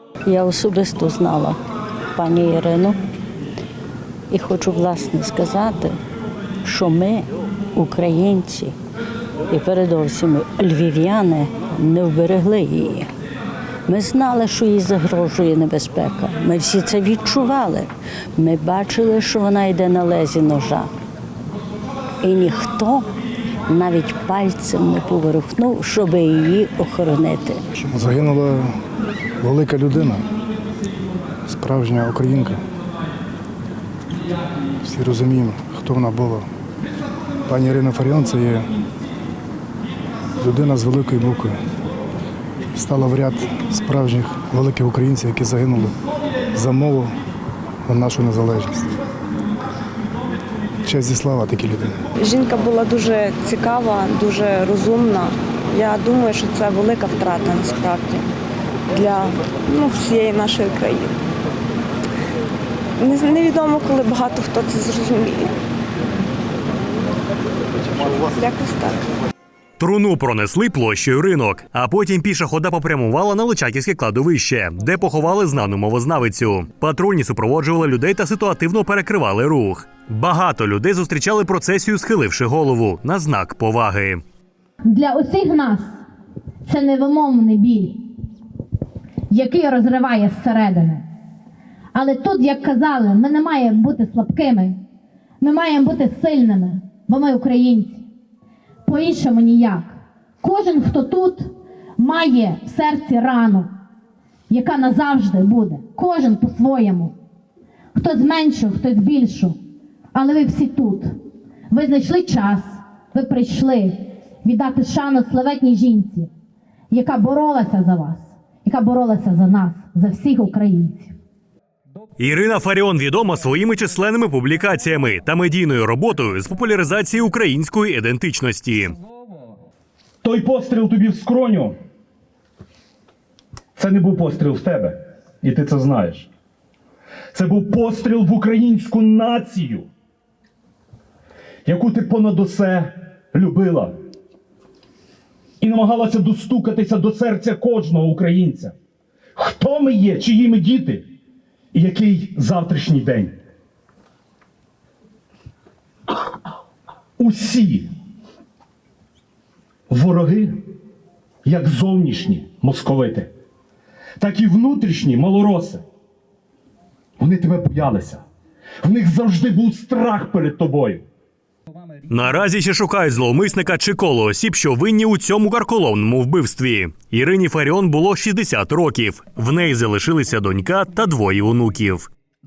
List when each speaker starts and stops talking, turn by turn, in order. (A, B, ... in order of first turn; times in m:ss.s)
0:00.3-0:01.6 A
0:02.2-0:03.0 A
0:04.3-0:06.0 A
0:06.6-0:08.8 A
0:09.5-0:13.1 A
0:13.9-0:20.9 A
0:22.2-0:23.1 A
0:23.7-0:27.6 A
0:27.8-0:28.7 B
0:29.4-0:30.3 B
0:31.5-0:32.6 B
0:34.8-0:36.5 B
0:37.5-0:38.7 B
0:40.4-0:41.6 B
0:42.8-0:45.9 B
0:46.6-0:47.1 B
0:47.9-0:48.9 B
0:50.8-0:52.0 B
0:52.2-0:58.3 C
0:58.9-1:01.2 C
1:03.0-1:05.6 C
1:08.0-1:09.1 C
1:09.8-1:24.2 D
1:24.8-1:26.0 E
1:26.7-1:28.0 E
1:29.3-1:31.0 E
1:31.9-1:34.8 E
1:35.4-1:38.1 E
1:38.8-1:43.7 E
1:44.5-1:47.2 E
1:47.9-1:49.6 E
1:50.1-1:51.1 E
1:51.7-1:56.3 E
1:56.9-2:01.1 E
2:02.2-2:09.0 D
2:10.2-2:11.7 F
2:13.8-2:16.3 F
2:17.3-2:19.9 F
2:21.6-2:24.0 F
2:25.6-2:28.8 F
2:29.4-2:31.0 F
2:31.7-2:33.4 F
2:37.2-2:37.9 F
2:39.9-2:40.6 F
2:41.4-2:43.3 F
2:44.2-2:45.8 F
2:47.2-2:48.2 F
2:48.8-2:51.1 F
2:52.1-3:02.1 D